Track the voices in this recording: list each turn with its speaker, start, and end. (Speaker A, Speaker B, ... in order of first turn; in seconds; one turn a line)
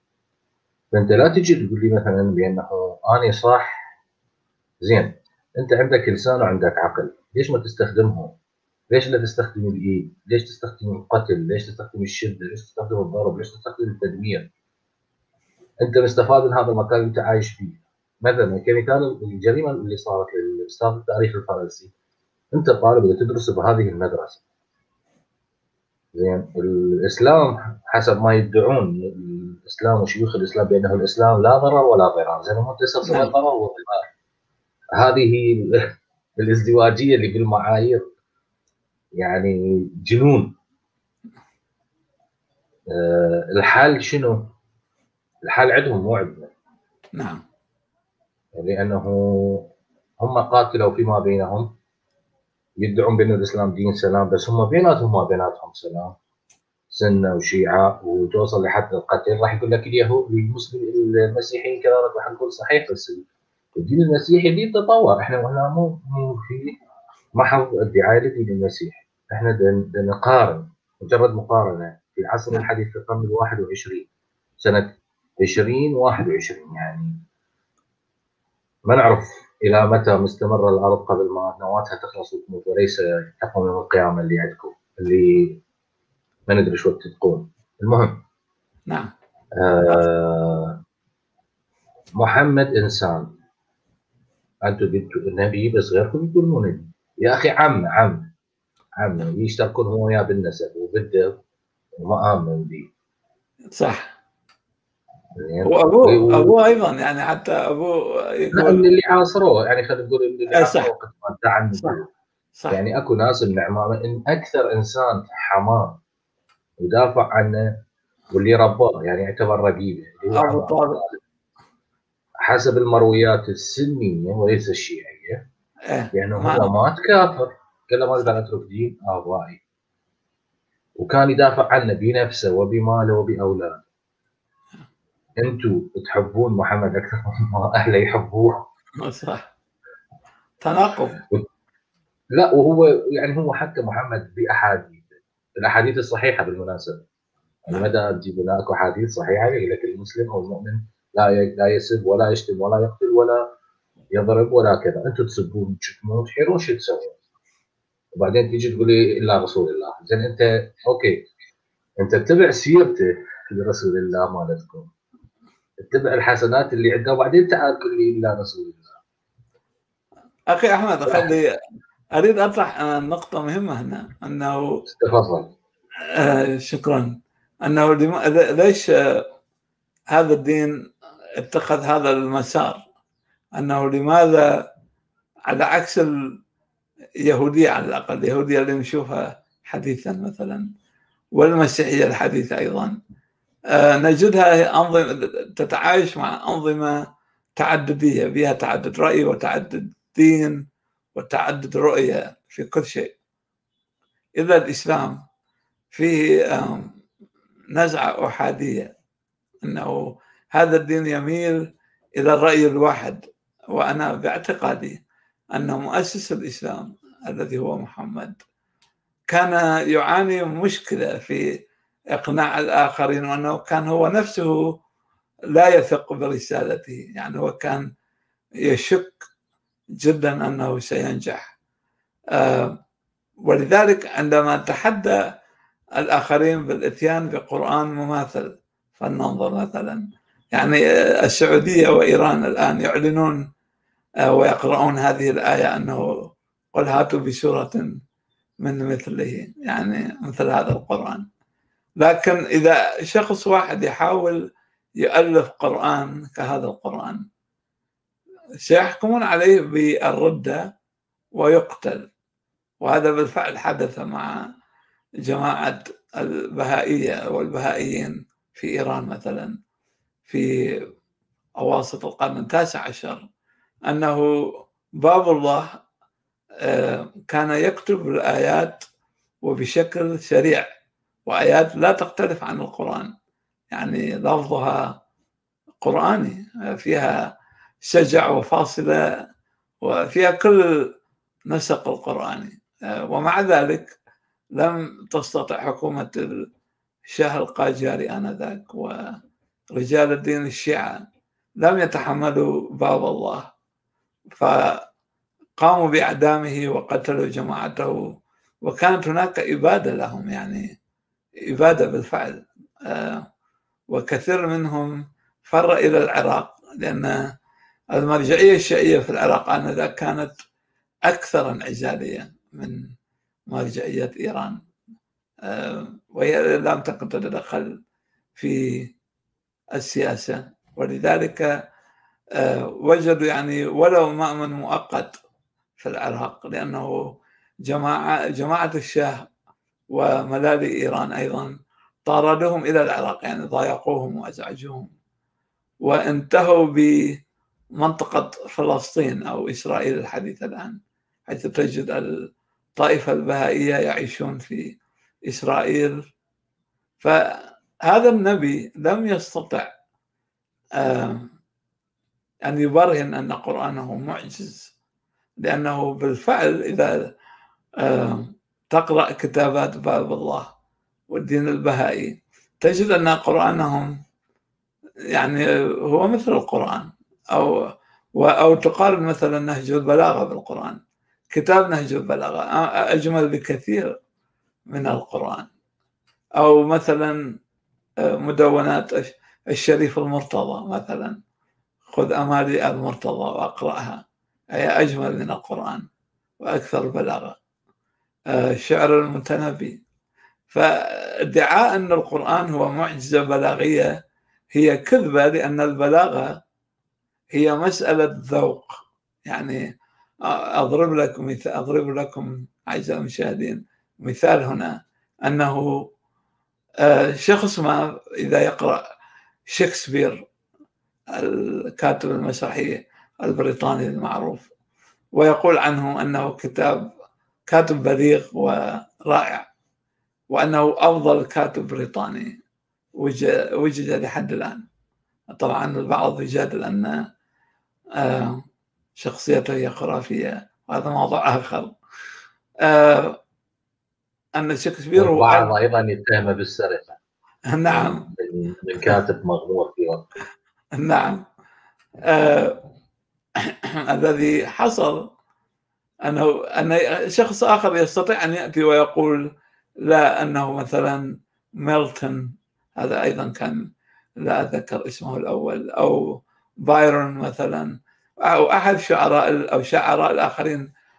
Speaker A: 0.9-3.9
Speaker A: 4.8-8.3
Speaker A: 8.9-14.5
Speaker A: 15.8-21.9
Speaker A: 22.5-24.4
Speaker A: 26.1-34.1
Speaker B: 33.0-33.3
Speaker A: 35.0-38.0
Speaker A: 39.1-40.5
Speaker A: 42.9-44.5
Speaker A: 45.4-46.5
Speaker B: 47.1-47.4
Speaker A: 48.5-51.7
Speaker A: 52.8-56.1
Speaker A: 56.9-63.2
Speaker A: 63.7-66.8
Speaker A: 67.3-74.1
Speaker A: 74.6-77.2
Speaker A: 78.8-85.6
Speaker A: 86.5-88.2
Speaker A: 89.6-90.8
Speaker A: 92.2-93.3
Speaker A: 94.6-98.3
Speaker A: 99.0-101.4
Speaker A: 102.0-102.9
Speaker B: 103.7-104.1
Speaker A: 105.3-106.6
Speaker B: 105.6-108.9
Speaker A: 108.5-112.1
Speaker B: 110.5-110.9
Speaker A: 112.7-116.0
Speaker A: 116.8-117.8
Speaker A: 118.3-121.1
Speaker B: 120.3-121.0
Speaker A: 122.4-125.5
Speaker B: 125.9-126.7
Speaker A: 126.1-129.6
Speaker A: 131.0-133.8
Speaker A: 135.4-138.7
Speaker B: 139.0-139.5
Speaker B: 140.6-141.2
Speaker A: 142.3-145.0
Speaker A: 145.6-147.0
Speaker A: 147.7-153.4
Speaker A: 154.1-157.2
Speaker A: 158.1-161.2
Speaker A: 162.0-164.9
Speaker A: 165.8-168.8
Speaker B: 170.5-171.5
Speaker B: 172.2-174.8
Speaker A: 174.8-175.5
Speaker B: 176.1-179.2
Speaker B: 180.1-180.7
Speaker B: 181.4-182.8
Speaker B: 183.6-184.4
Speaker B: 185.5-186.1
Speaker B: 187.2-190.7
Speaker B: 191.3-193.0
Speaker B: 193.7-197.0
Speaker B: 197.6-200.6
Speaker B: 201.1-203.1
Speaker B: 204.4-205.2
Speaker B: 205.9-206.9
Speaker B: 207.7-208.9
Speaker B: 209.6-211.6
Speaker B: 212.2-213.2
Speaker B: 213.7-215.0
Speaker B: 215.5-218.4
Speaker B: 219.3-221.4
Speaker B: 222.1-224.6
Speaker B: 225.5-227.8
Speaker B: 228.6-229.2
Speaker B: 230.0-231.4
Speaker B: 232.3-232.8
Speaker B: 233.4-235.2
Speaker B: 236.0-243.4
Speaker B: 244.3-246.1
Speaker B: 246.7-247.9
Speaker B: 248.6-251.2
Speaker B: 252.0-254.4
Speaker B: 255.0-257.2
Speaker B: 258.6-260.6
Speaker B: 261.4-262.1
Speaker B: 262.8-264.4
Speaker B: 265.2-269.6
Speaker B: 271.6-273.2
Speaker B: 273.9-274.3
Speaker B: 275.0-275.7
Speaker B: 276.6-278.8
Speaker B: 279.4-280.6
Speaker B: 281.2-283.1
Speaker B: 283.7-284.8
Speaker B: 285.8-287.1
Speaker B: 287.8-289.0
Speaker B: 289.8-290.6
Speaker B: 291.5-293.9
Speaker B: 294.6-296.3
Speaker B: 297.1-299.0
Speaker B: 299.7-300.9
Speaker B: 301.6-303.4
Speaker B: 304.3-304.8
Speaker B: 305.6-308.0
Speaker B: 308.6-310.7
Speaker B: 311.5-313.2
Speaker B: 313.9-317.2
Speaker B: 317.9-320.4
Speaker B: 321.1-322.8
Speaker B: 323.5-324.6
Speaker B: 325.5-327.8
Speaker B: 328.4-328.9
Speaker B: 329.7-331.5
Speaker B: 332.4-335.1
Speaker B: 335.8-337.0
Speaker B: 337.6-339.2
Speaker B: 339.9-341.5
Speaker B: 342.1-344.9
Speaker B: 345.8-347.1
Speaker B: 347.8-352.1
Speaker B: 352.8-356.0
Speaker B: 357.8-359.7
Speaker B: 360.8-361.3
Speaker B: 362.4-364.7
Speaker B: 365.4-366.9
Speaker B: 367.8-370.5
Speaker B: 371.1-373.9
Speaker B: 375.1-377.5
Speaker B: 378.2-380.8
Speaker B: 381.3-383.9
Speaker B: 384.7-385.5
Speaker B: 386.4-387.2
Speaker B: 388.1-391.2
Speaker B: 391.9-394.0
Speaker B: 394.5-395.9
Speaker B: 396.4-397.4
Speaker B: 398.3-399.8
Speaker B: 401.3-403.9
Speaker B: 404.5-406.3
Speaker B: 407.3-408.7
Speaker B: 409.2-409.6
Speaker B: 410.3-415.9
Speaker B: 416.8-418.8
Speaker B: 419.5-420.2
Speaker B: 421.1-424.5
Speaker B: 425.1-426.9
Speaker B: 427.5-429.4
Speaker B: 430.3-432.4
Speaker B: 433.0-434.6
Speaker B: 435.4-437.0
Speaker B: 438.0-438.4
Speaker B: 439.0-441.7
Speaker B: 442.6-443.2
Speaker B: 444.4-445.5
Speaker A: 444.9-447.0
Speaker B: 447.5-448.1
Speaker A: 448.1-450.1
Speaker B: 450.8-451.2
Speaker B: 452.1-452.6
Speaker B: 453.9-455.1
Speaker B: 456.0-459.2
Speaker B: 459.8-461.0
Speaker B: 461.6-463.6
Speaker B: 464.2-466.0
Speaker B: 466.6-470.7